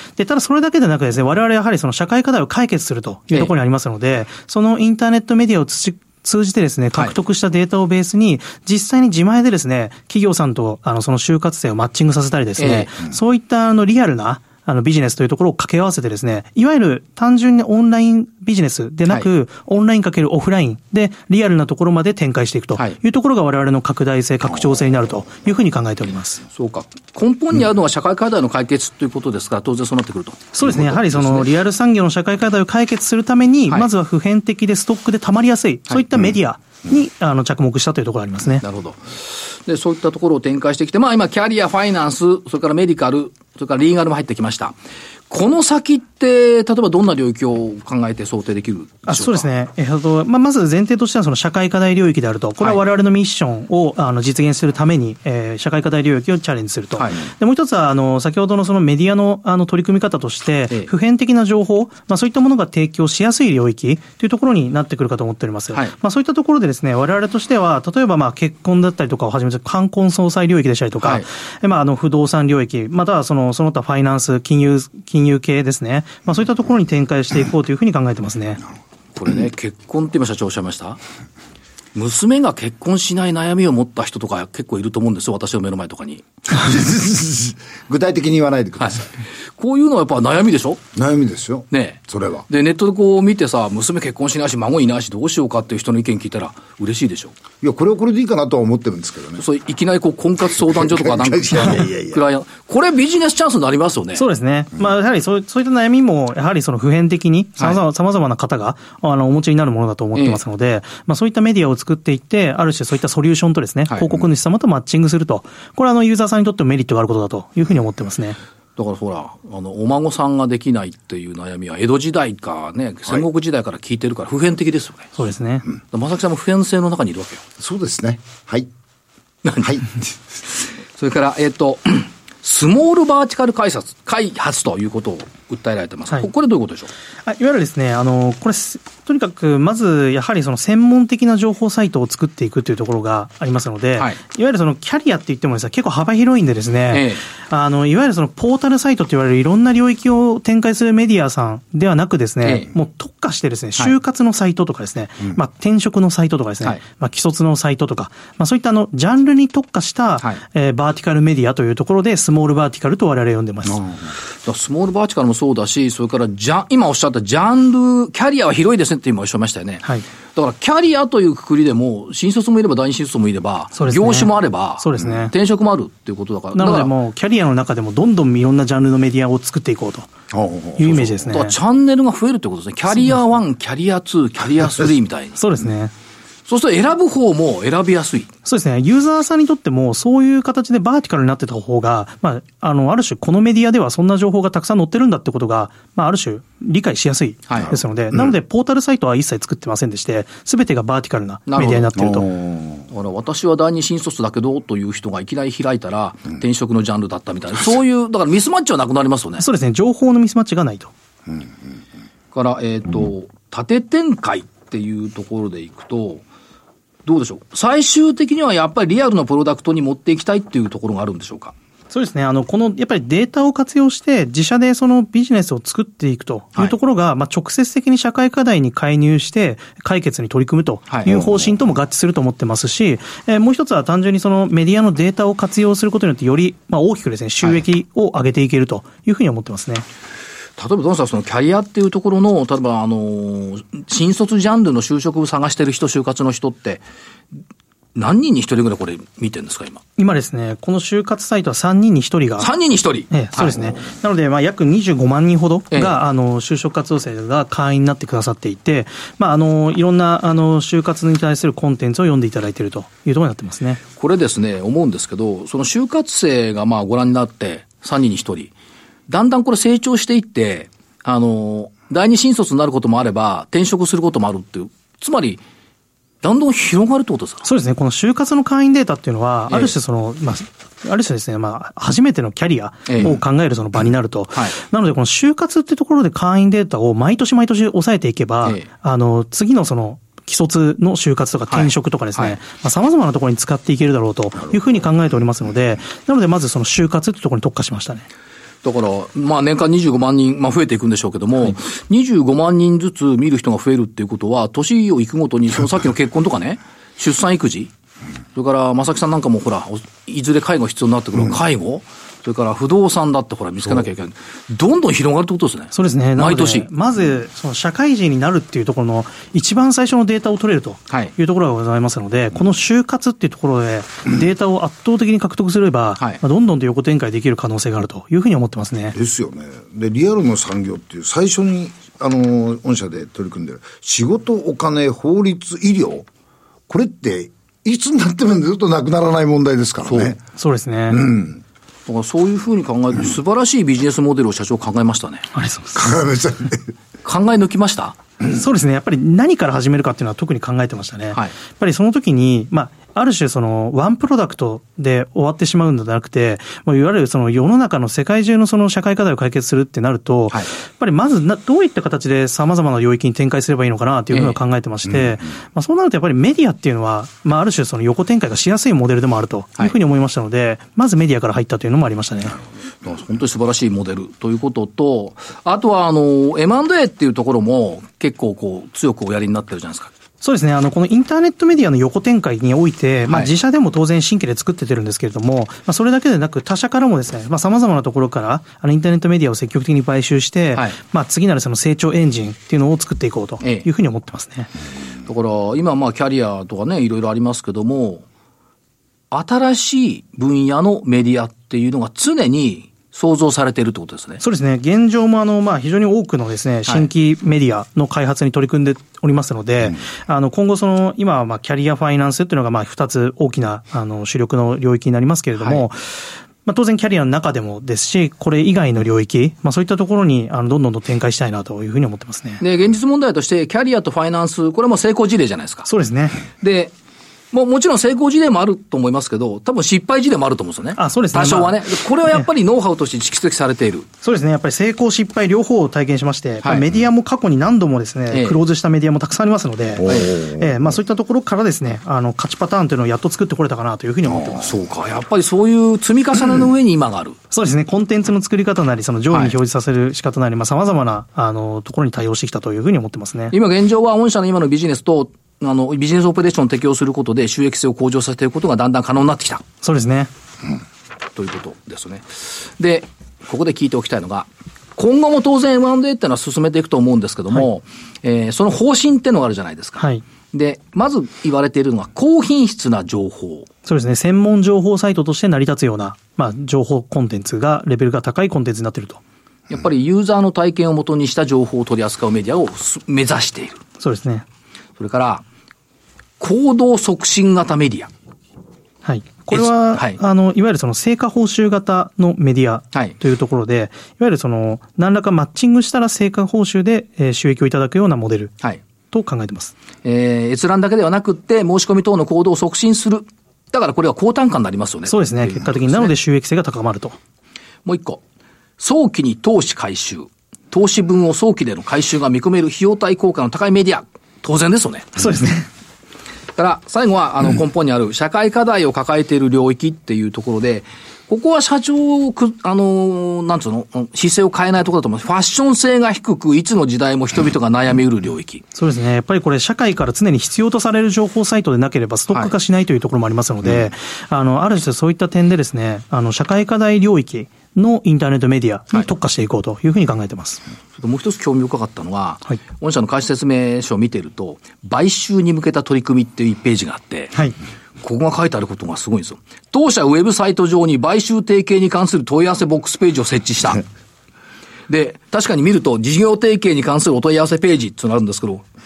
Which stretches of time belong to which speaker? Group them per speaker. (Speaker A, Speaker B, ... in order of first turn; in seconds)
Speaker A: 0.2-26.4, 30.5-38.6, 49.1-78.6, 104.2-118.4, 125.2-125.7, 137.3-163.8, 173.8-175.3, 176.6-180.1, 180.8-181.6, 185.4-185.9, 188.4-202.3, 209.4-210.9, 221.9-239.8, 250.0-252.5, 253.1-263.8, 277.4-298.1, 315.7-329.0, 340.4-341.1, 345.3-346.0, 348.3-372.4, 380.2-394.5, 404.2-422.4, 425.7-426.2, 430.8-432.3, 434.0-444.5, 447.3-453.4, 459.6-460.1, 469.8-470.0, 473.7-479.0, 483.8-484.2, 488.9-498.3, 498.9-499.5, 504.9-507.0, 515.0-515.5, 528.5-540.4
Speaker B: 12.6-12.9, 26.6-31.5, 38.6-44.8, 45.3-49.5, 71.0-71.3, 79.2-81.0, 82.0-86.3, 89.6-90.8, 91.7-97.3, 99.4-104.2, 110.2-110.4, 118.8-125.2, 125.9-127.4, 129.4-129.9, 131.0-136.9, 146.9-147.2, 152.4-152.7, 164.4-176.9, 181.3-185.4, 186.5-188.3, 201.5-201.9, 202.9-209.4, 212.3-216.2, 217.1-221.6, 240.6-246.8, 247.9-249.8, 252.4-253.6, 264.0-268.5, 269.1-275.4, 276.2-277.5, 282.9-283.1, 291.5-292.4, 298.6-307.7, 308.4-316.7, 339.9-340.2, 341.9-345.3, 347.0-348.0, 364.1-364.4, 372.8-379.9, 393.4-393.7, 395.1-398.0, 399.1-404.2, 415.4-415.6, 422.4-425.7, 426.4-426.7, 427.3-433.9, 438.1-438.4, 439.9-440.1, 444.4-447.2, 453.3-459.4, 461.2-473.5, 479.5-483.6, 484.8-485.2, 486.2-487.9, 489.3-490.0, 499.8-505.9, 507.6-508.0, 508.6-515.0, 516.4-528.4, 540.8-547.2, 547.8-553.6, 554.7-558.5
Speaker C: 86.5-89.1, 91.0-92.5, 97.6-99.4, 100.6-102.2, 127.6-128.7, 129.6-129.9, 180.3-181.3, 202.0-202.8, 231.1-231.5, 328.9-336.1, 336.7-340.2, 340.9-341.4, 345.8-346.7, 439.8-440.5